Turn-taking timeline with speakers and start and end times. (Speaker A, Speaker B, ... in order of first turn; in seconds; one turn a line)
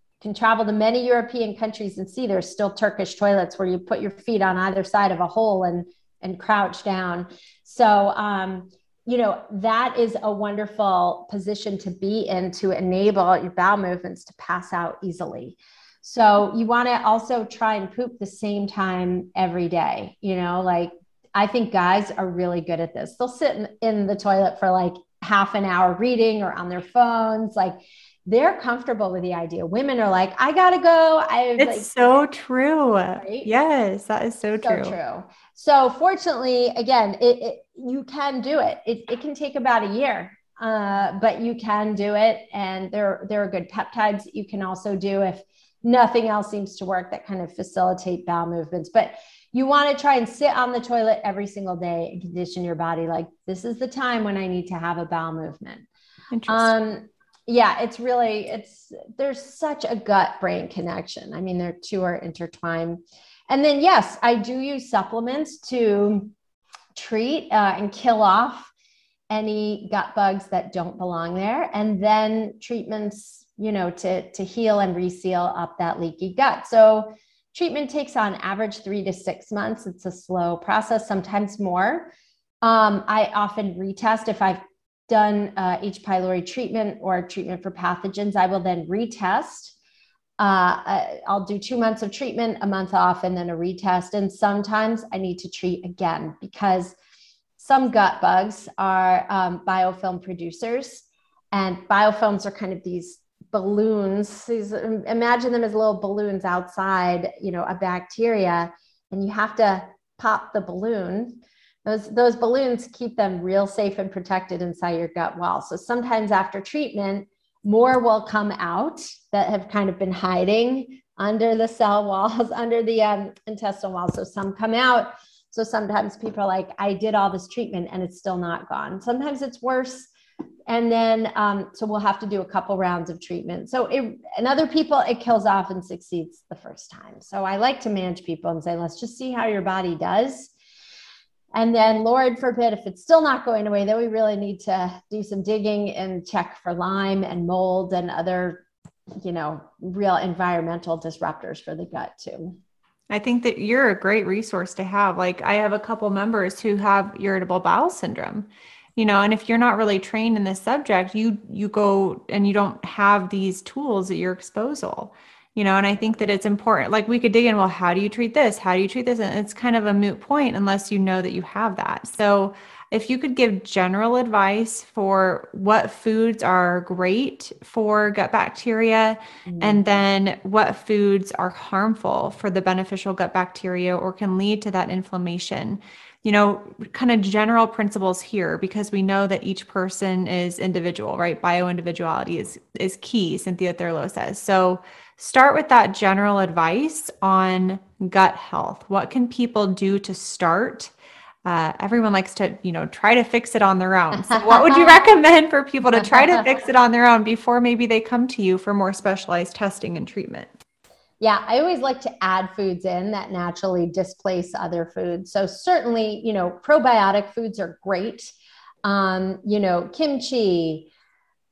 Speaker A: 0.2-31.9
Speaker B: 31.6-34.9
Speaker A: 33.2-33.5
Speaker A: 34.6-55.9
Speaker B: 56.3-56.7
Speaker A: 56.5-66.3
Speaker A: 66.9-68.7
Speaker A: 69.3-82.1
Speaker A: 82.6-89.8
Speaker A: 90.4-96.9
Speaker A: 97.6-130.1
Speaker A: 130.7-140.5
Speaker A: 141.5-148.6
Speaker A: 149.2-152.6
Speaker B: 153.1-200.9
Speaker A: 179.5-180.0
Speaker B: 201.4-210.5
Speaker A: 204.2-204.9
Speaker A: 211.2-218.3
Speaker A: 218.8-220.9